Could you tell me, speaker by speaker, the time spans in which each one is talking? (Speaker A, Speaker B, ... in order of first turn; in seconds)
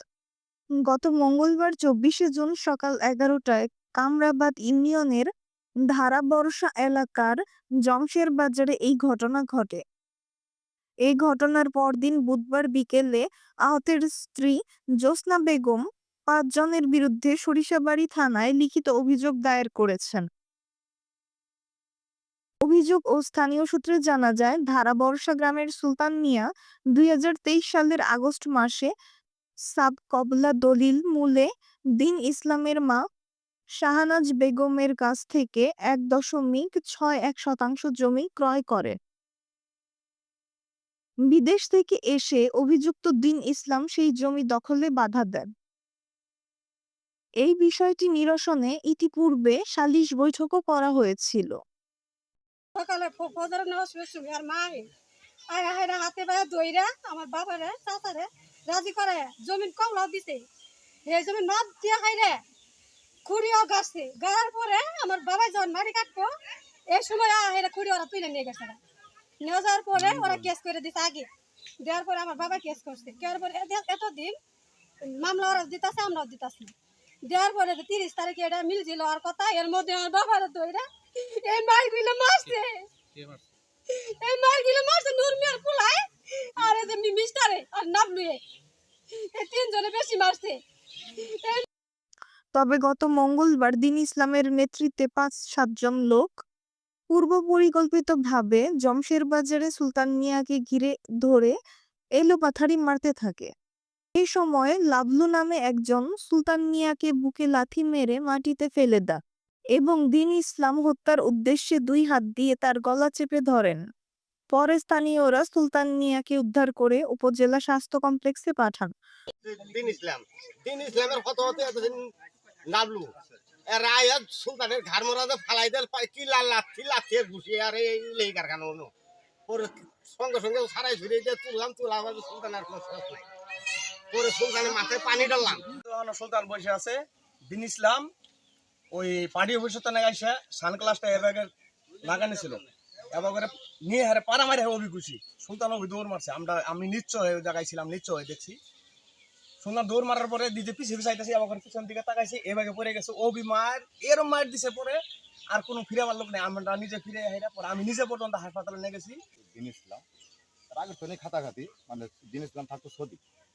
Speaker A: 0.8-5.3, 5.9-9.8, 11.1-20.2, 22.6-28.9, 29.7-33.0, 33.8-39.0, 41.3-45.5, 47.4-51.5, 92.5-96.4, 97.1-101.5, 102.2-103.5, 104.2-109.2, 109.8-113.8, 114.5-118.9
Speaker B: 52.7-54.9, 55.5-60.4, 61.1-62.4, 63.2-66.3, 66.9-68.8, 69.4-71.3, 71.8-74.3, 75.0-76.7, 77.2-82.8, 83.9-88.4, 89.3-90.6, 91.2-91.7
Speaker C: 70.0-70.3, 135.6-138.1, 138.9-141.5, 142.0-148.6, 149.6-155.0, 155.5-159.2
Speaker D: 119.5-122.0, 122.7-123.1, 123.7-128.9, 129.5-133.2, 134.1-135.6
Speaker E: 159.4-160.0, 160.7-163.2